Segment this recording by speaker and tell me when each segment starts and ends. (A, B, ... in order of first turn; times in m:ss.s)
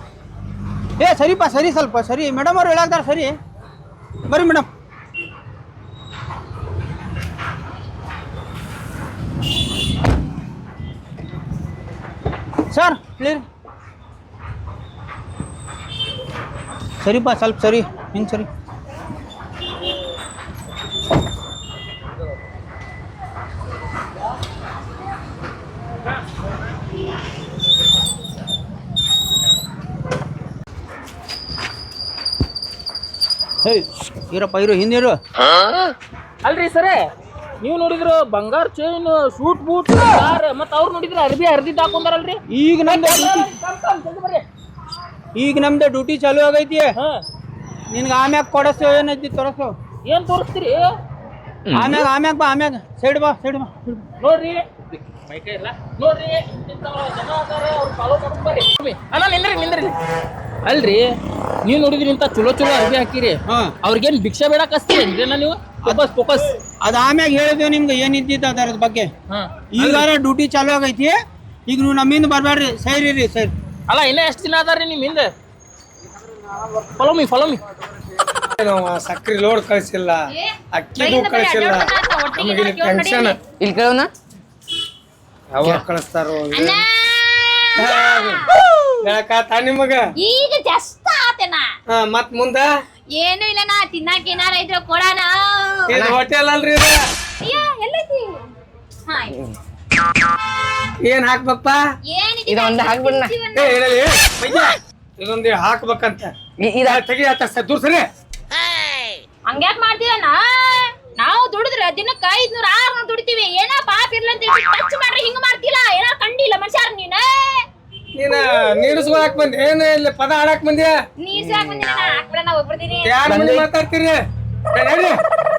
0:01.0-0:03.4 A
0:04.3-0:04.7 A
0:12.7-0:13.4 A
0:17.0-0:18.5 A
0:33.6-0:35.2 A
0:36.4-0:37.0 B
0:37.6-0:44.4 B
0:42.5-0:43.5 A
0:45.3-0:46.9 A
0:47.9-0:49.7 A
0:50.0-0:50.9 B
0:51.7-0:53.9 A
0:54.2-1:00.0 B
1:00.6-1:01.1 B
1:01.6-1:06.4 B
1:06.8-1:09.1 A
1:09.3-1:10.1 B
1:09.7-1:13.5 A
1:13.9-1:15.3 B
1:16.7-1:17.6 B
1:18.6-1:23.4 C
1:20.3-1:23.4 D
1:23.6-1:24.1 E
1:25.5-1:26.8 C
1:26.5-1:28.5 D
1:27.8-1:28.5 C
1:29.0-1:30.0 C
1:30.2-1:31.7 D
1:31.9-1:32.7 C
1:33.1-1:35.9 D
1:35.9-1:37.0 C
1:35.9-1:36.2 E
1:37.4-1:38.4 D
1:39.1-1:39.3 D
1:39.3-1:39.6 E
1:41.0-1:41.8 C
1:42.1-1:43.8 D
1:42.5-1:43.3 E
1:43.5-1:46.3 C
1:46.6-1:47.0 E
1:46.9-1:48.0 C
1:49.5-1:57.6 D
1:58.2-2:00.9 C
2:01.2-2:03.2 D
2:01.3-2:02.0 E
2:03.0-2:04.2 C
2:03.2-2:03.7 E
2:04.7-2:05.2 C